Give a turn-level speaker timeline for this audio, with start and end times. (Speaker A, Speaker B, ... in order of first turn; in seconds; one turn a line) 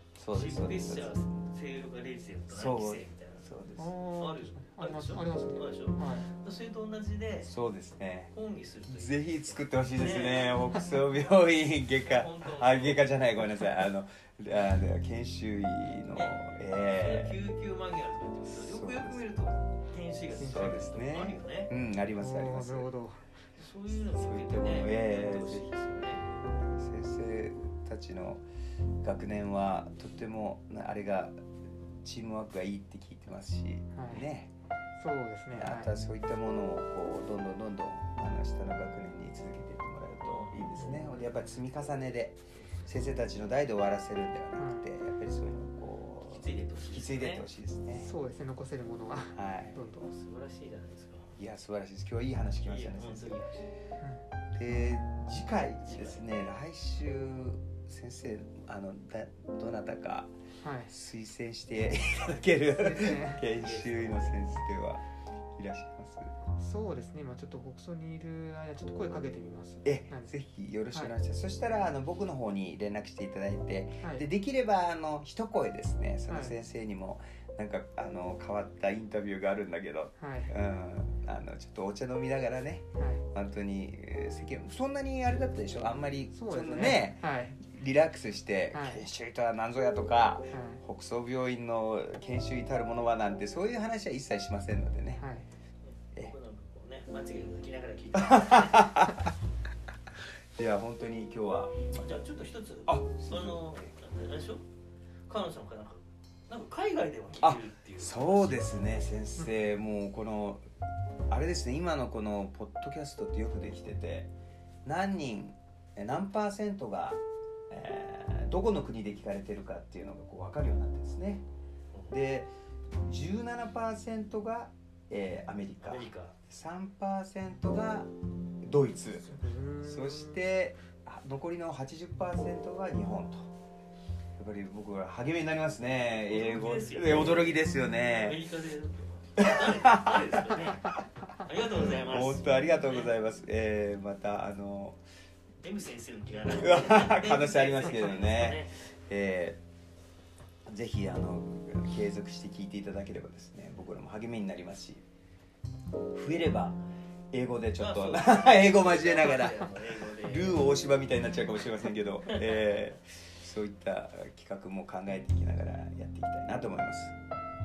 Speaker A: 0.2-1.2
Speaker B: 0.3-3.5
Speaker A: 2.5-4.0
Speaker C: 3.8-6.3
Speaker B: 4.0-7.5
Speaker A: 7.4-8.3
Speaker B: 8.3-10.9
Speaker A: 8.9-17.4
Speaker B: 12.0-13.3
Speaker B: 16.9-21.7
Speaker A: 18.5-19.3
Speaker C: 20.3-20.9
Speaker A: 20.4-22.9
Speaker C: 22.2-23.3
Speaker B: 23.6-26.3
Speaker A: 24.1-28.4
Speaker A: 29.0-31.4
Speaker A: 32.0-34.5
Speaker C: 33.9-34.3
Speaker C: 35.0-36.0
Speaker A: 35.5-48.1
Speaker B: 40.2-41.2
Speaker B: 42.5-42.9
Speaker C: 44.6-44.9
Speaker B: 46.3-47.5
Speaker C: 48.0-50.1
Speaker A: 49.3-49.8
Speaker B: 50.0-51.4
Speaker A: 51.4-53.4
Speaker B: 52.6-53.7
Speaker C: 54.0-54.2
Speaker A: 54.5-60.3
Speaker B: 55.9-56.2
Speaker C: 60.6-60.9
Speaker A: 60.9-65.0
Speaker C: 62.7-63.4
Speaker B: 63.5-64.4
Speaker A: 65.6-66.3
Speaker C: 66.6-70.3
Speaker A: 69.8-95.2
Speaker C: 74.0-74.3
Speaker C: 76.3-76.6
Speaker C: 80.2-80.5
Speaker C: 83.0-83.2
Speaker C: 86.3-87.6
Speaker C: 88.7-89.0
Speaker C: 90.5-90.8
Speaker C: 95.2-95.5
Speaker B: 95.8-99.0
Speaker A: 98.2-99.2
Speaker A: 100.6-101.9
Speaker B: 101.9-104.6
Speaker A: 102.9-104.0
Speaker B: 105.3-109.1
Speaker A: 107.4-110.7
Speaker A: 111.3-114.3
Speaker A: 114.8-121.5
Speaker A: 122.1-122.5
Speaker A: 123.0-128.1
Speaker B: 125.8-126.4
Speaker A: 128.6-133.5
Speaker C: 129.4-130.4
Speaker A: 134.4-138.4
Speaker B: 136.3-143.1
Speaker A: 139.4-140.6
Speaker A: 141.7-145.0
Speaker B: 145.6-148.8
Speaker A: 146.5-149.6
Speaker A: 150.7-155.0
Speaker A: 156.1-156.8
Speaker A: 157.3-167.2
Speaker B: 157.8-160.7